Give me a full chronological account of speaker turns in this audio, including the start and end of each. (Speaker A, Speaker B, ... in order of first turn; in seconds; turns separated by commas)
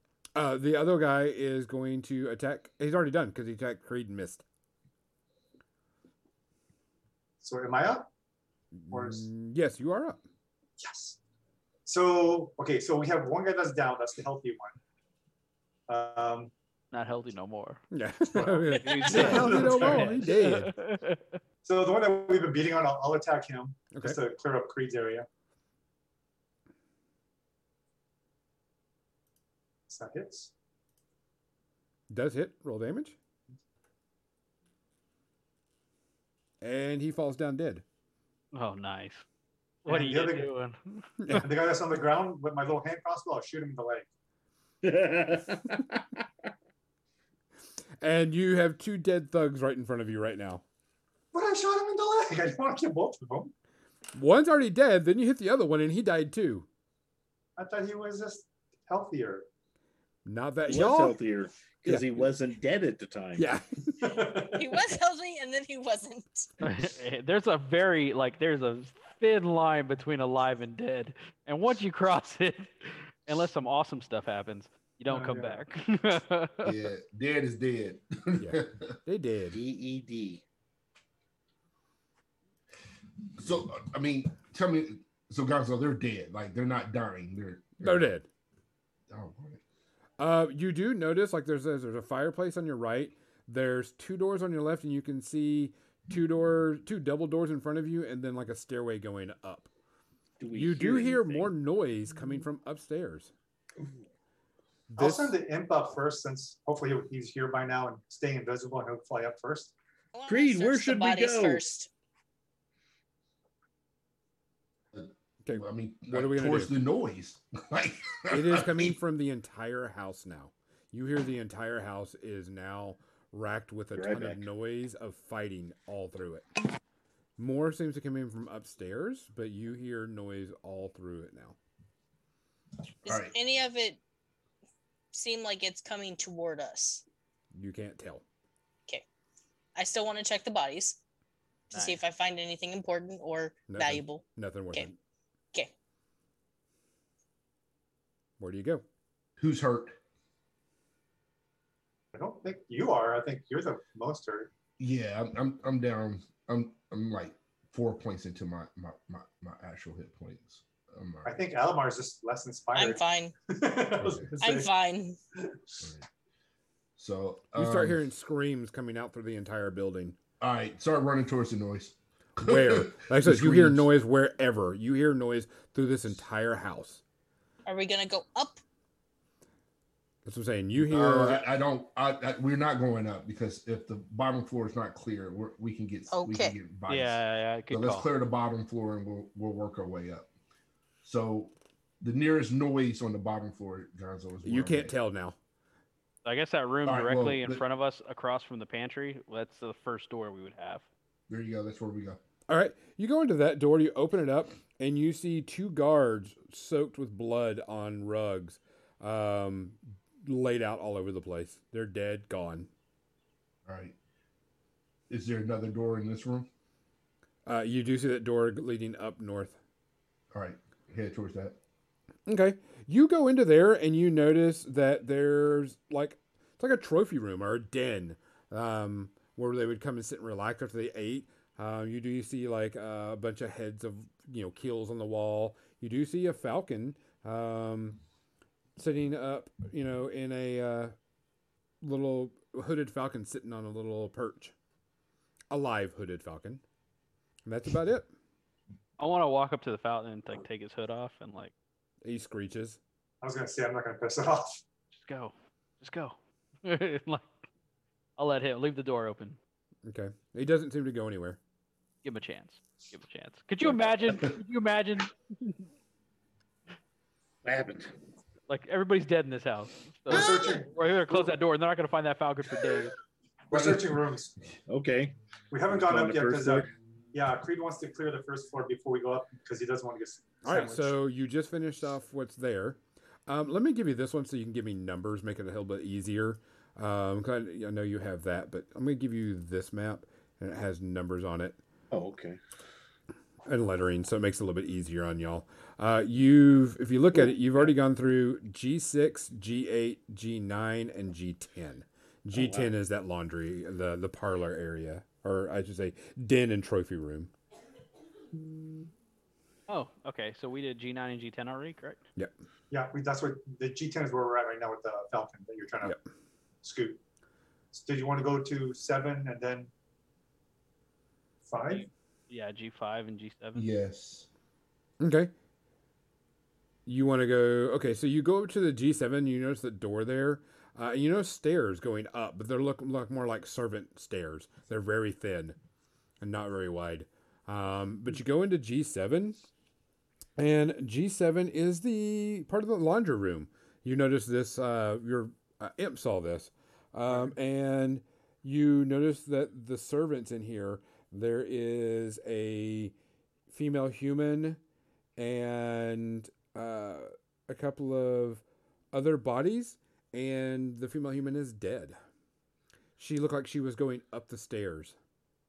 Speaker A: 0.3-4.4, Speaker B: 7.4-8.1, Speaker A: 8.8-10.2, Speaker B: 8.9-9.2, Speaker B: 10.8-11.2, Speaker B: 11.8-14.8, Speaker B: 15.9-16.5, Speaker C: 16.9-17.8, Speaker A: 17.9-20.7, Speaker B: 18.3-20.3, Speaker C: 18.7-21.4, Speaker D: 18.9-19.3, Speaker B: 21.6-25.2, Speaker B: 29.9-30.5, Speaker A: 32.1-33.1, Speaker A: 36.6-37.8, Speaker C: 38.5-39.2, Speaker B: 39.9-40.5, Speaker C: 39.9-41.0, Speaker B: 41.3-44.1, Speaker E: 44.8-46.1, Speaker A: 48.0-50.6, Speaker B: 51.3-53.5, Speaker A: 54.1-56.7, Speaker B: 57.6-59.5, Speaker A: 60.2-61.2, Speaker E: 60.6-63.5, Speaker A: 61.9-62.3, Speaker A: 63.4-64.0, Speaker B: 64.0-64.8, Speaker D: 64.5-66.5, Speaker C: 66.6-76.8, Speaker B: 75.1-75.6, Speaker F: 76.6-79.0, Speaker A: 78.4-79.6, Speaker E: 79.5-80.4, Speaker F: 83.4-88.1, Speaker A: 87.8-88.2, Speaker F: 89.1-89.6, Speaker A: 90.2-99.7, Speaker E: 100.4-101.5, Speaker A: 100.5-103.3, Speaker A: 104.9-105.3, Speaker B: 105.0-109.7, Speaker D: 110.1-111.9, Speaker E: 110.3-111.6, Speaker F: 114.9-119.0, Speaker A: 115.4-116.7, Speaker A: 118.3-126.5, Speaker E: 123.9-124.4, Speaker A: 127.4-131.6, Speaker F: 133.0-133.3, Speaker D: 133.0-134.0, Speaker D: 135.1-137.0, Speaker A: 137.5-138.2, Speaker D: 139.8-141.0, Speaker D: 141.7-144.9, Speaker C: 141.7-142.0, Speaker A: 143.7-144.9, Speaker A: 148.4-148.8, Speaker F: 149.4-149.9, Speaker B: 152.1-154.5, Speaker F: 154.8-161.4, Speaker B: 161.2-164.7, Speaker D: 162.7-163.3, Speaker F: 164.0-164.3, Speaker D: 164.4-165.2, Speaker B: 165.4-165.8, Speaker F: 167.0-168.0, Speaker A: 167.5-170.2, Speaker F: 170.4-173.9, Speaker A: 172.4-177.0, Speaker D: 177.7-178.6, Speaker A: 180.2-181.4, Speaker F: 180.8-190.3, Speaker D: 186.1-186.5, Speaker C: 186.9-188.1, Speaker F: 191.0-194.9, Speaker A: 194.4-195.3, Speaker C: 196.2-200.8, Speaker F: 196.8-197.6, Speaker F: 201.3-202.2, Speaker A: 202.5-212.7, Speaker F: 213.7-213.9, Speaker F: 215.1-216.5, Speaker A: 217.4-219.6, Speaker F: 220.3-221.6, Speaker A: 222.3-238.0, Speaker A: 238.8-240.9, Speaker A: 241.8-244.5, Speaker A: 245.5-246.6, Speaker A: 247.4-248.1, Speaker C: 249.0-251.5, Speaker A: 252.0-252.8, Speaker B: 253.2-254.6, Speaker C: 254.9-257.3, Speaker C: 258.2-259.4, Speaker A: 259.8-261.4, Speaker C: 262.0-265.1, Speaker E: 267.4-267.9, Speaker C: 268.5-272.9, Speaker B: 270.1-270.7, Speaker E: 270.1-270.6, Speaker B: 273.5-274.3, Speaker F: 273.5-273.8, Speaker E: 274.7-275.1, Speaker B: 275.5-280.9, Speaker E: 275.7-276.7, Speaker A: 280.4-291.6, Speaker E: 291.9-292.4, Speaker A: 293.4-307.3, Speaker E: 297.1-297.7, Speaker E: 302.3-302.7, Speaker C: 309.7-312.0, Speaker B: 312.7-315.9, Speaker B: 316.6-317.0, Speaker B: 317.7-319.7, Speaker B: 321.4-321.9, Speaker C: 321.7-323.7, Speaker F: 323.5-324.3, Speaker A: 325.0-325.3, Speaker A: 326.9-335.6, Speaker A: 336.2-339.4, Speaker A: 340.4-352.9, Speaker A: 353.5-354.6, Speaker A: 355.2-362.0, Speaker A: 363.0-364.9